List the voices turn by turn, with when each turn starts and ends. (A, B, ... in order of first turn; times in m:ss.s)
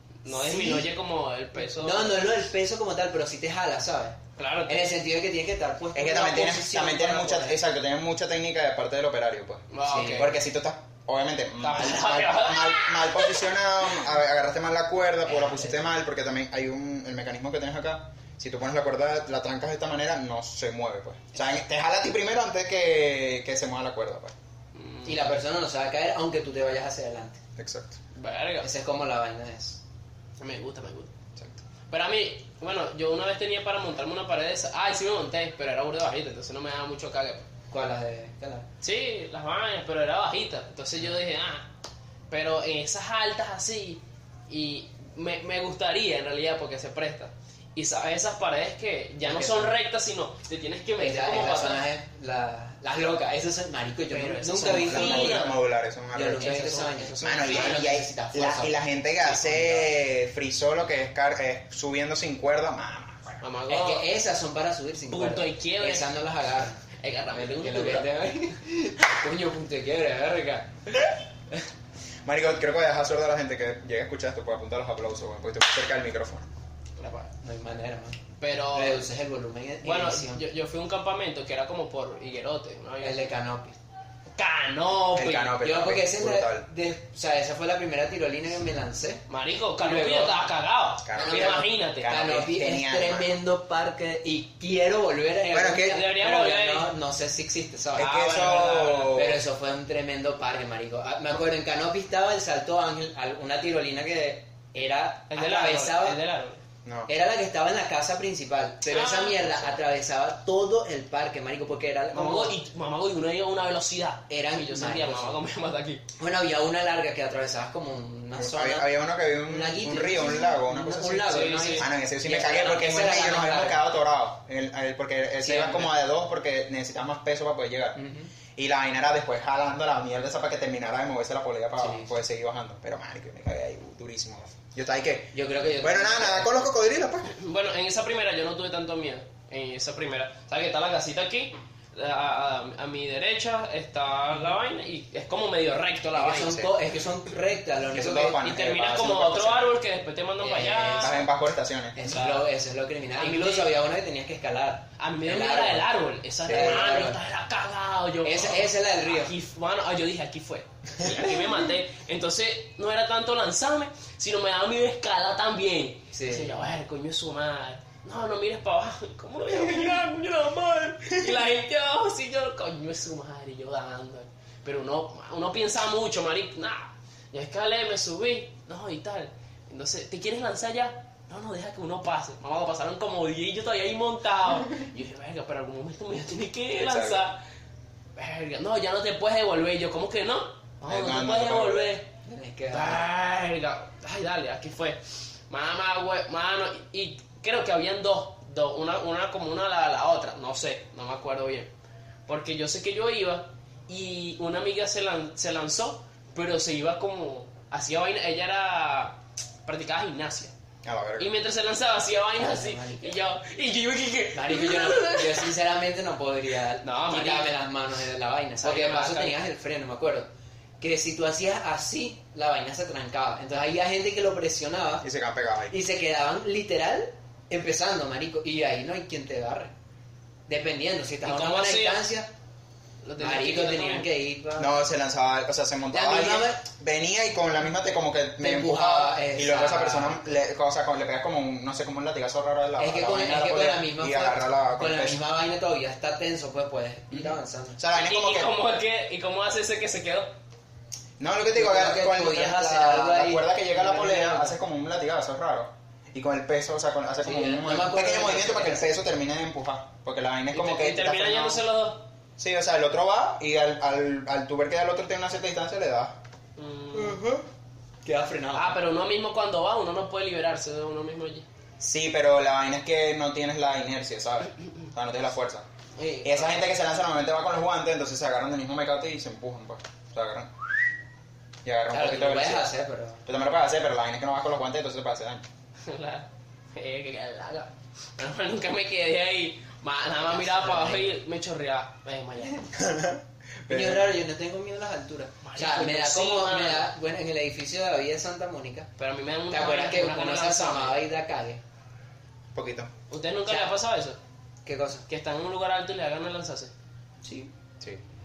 0:00.2-0:02.2 A
0:00.3-0:00.9 B
0:01.5-0:07.6 B
0:04.4-0:04.9 A
0:05.9-0:24.3 C
0:09.7-0:10.3 A
0:09.8-0:10.3 B
0:11.6-0:13.4 A
0:15.2-0:15.8 B
0:24.7-0:25.3 A
0:25.0-0:27.4 B
0:27.6-0:28.0 C
0:28.1-0:28.7 A
0:28.6-0:29.8 B
0:30.4-0:31.1 A
0:31.9-0:37.5 A
0:37.7-0:38.7 B
0:38.8-0:41.7 A
0:42.3-0:51.8 A
0:49.2-0:49.7 B
0:51.0-0:55.6 B
0:54.1-0:55.6 A
0:54.6-0:56.6 C
0:56.1-0:58.7 B
0:56.4-0:57.8 A
0:57.2-1:03.4 C
0:59.3-0:59.9 B
1:03.4-1:04.0 A
1:03.7-1:11.0 B
1:05.1-1:06.1 A
1:07.0-1:08.1 A
1:12.2-1:16.5 C
1:17.0-1:17.3 A
1:17.4-1:18.2 B
1:18.4-1:19.0 A
1:18.7-1:20.4 B
1:19.8-1:23.3 A
1:23.0-1:23.8 B
1:24.4-1:25.6 A
1:25.1-1:26.7 C
1:25.6-1:29.2 B
1:29.3-1:32.1 A
1:29.8-1:30.4 B
1:31.0-1:33.3 C
1:31.1-1:38.1 B
1:35.5-1:36.0 C
1:35.8-1:36.9 A
1:37.9-1:39.4 C
1:38.0-1:39.2 A
1:39.1-1:46.2 B
1:45.3-1:46.6 A
1:46.8-1:47.1 C
1:47.1-1:52.6 B
1:48.9-1:49.8 A
1:52.1-1:56.0 A
1:54.3-1:55.4 B
1:56.2-1:58.9 B
1:58.4-2:08.0 C
1:59.4-2:03.8 B
2:01.3-2:01.8 A
2:05.4-2:05.9 B
2:08.0-2:08.3 B
2:08.6-2:17.3 C
2:11.8-2:12.1 B
2:15.3-2:16.5 B
2:17.3-2:26.7 A
2:26.1-2:28.4 B
2:27.9-2:29.7 C
2:28.4-2:31.2 A
2:30.4-2:31.2 B
2:31.0-2:32.0 C
2:32.0-2:35.9 B
2:32.0-2:32.5 A
2:33.2-2:33.7 A
2:35.0-3:07.4 A
2:36.5-2:36.8 C
2:36.5-2:37.2 B
2:38.2-2:39.3 B
2:46.1-2:46.6 B
3:06.8-3:07.2 C
3:08.2-3:12.1 A
3:10.9-3:11.9 C
3:12.2-3:13.0 B
3:12.7-3:21.7 A
3:22.3-3:30.5 A
3:30.8-3:31.3 C
3:31.2-3:35.5 A
3:32.4-3:33.2 B
3:34.3-3:40.3 B
3:36.8-3:37.5 A
3:38.6-3:39.4 A
3:40.8-3:45.1 B
3:45.0-3:45.7 C
3:45.7-3:49.7 B
3:50.5-3:52.3 B
3:51.2-3:52.0 A
3:53.0-3:54.1 A
3:53.2-3:54.8 B
3:54.6-4:05.2 C
3:55.9-3:56.6 B
3:58.4-4:00.4 B
4:02.8-4:07.8 B
4:07.1-4:08.5 C
4:07.9-4:10.3 A
4:11.2-4:21.6 C
4:11.5-4:14.6 B
4:17.2-4:18.9 B
4:20.5-4:22.0 A
4:22.4-4:26.2 C
4:26.6-4:27.2 A
4:26.9-4:27.4 B
4:28.0-4:28.8 B
4:28.5-4:31.4 A
4:31.8-4:35.6 C
4:36.0-4:36.6 A
4:36.2-4:40.6 C
4:41.6-4:42.7 C
4:41.9-4:43.2 B
4:43.2-4:45.4 C
4:45.8-4:52.6 A
4:50.2-4:51.1 B
4:52.4-4:52.7 B
4:52.7-4:54.1 C
4:53.7-4:58.9 B
4:55.4-4:56.9 A
4:59.0-5:01.0 A
4:59.5-5:01.6 B
5:02.5-5:02.9 C
5:03.1-5:04.2 A
5:03.5-5:03.7 B
5:04.6-5:05.0 B
5:05.1-5:06.7 A
5:07.2-5:07.5 B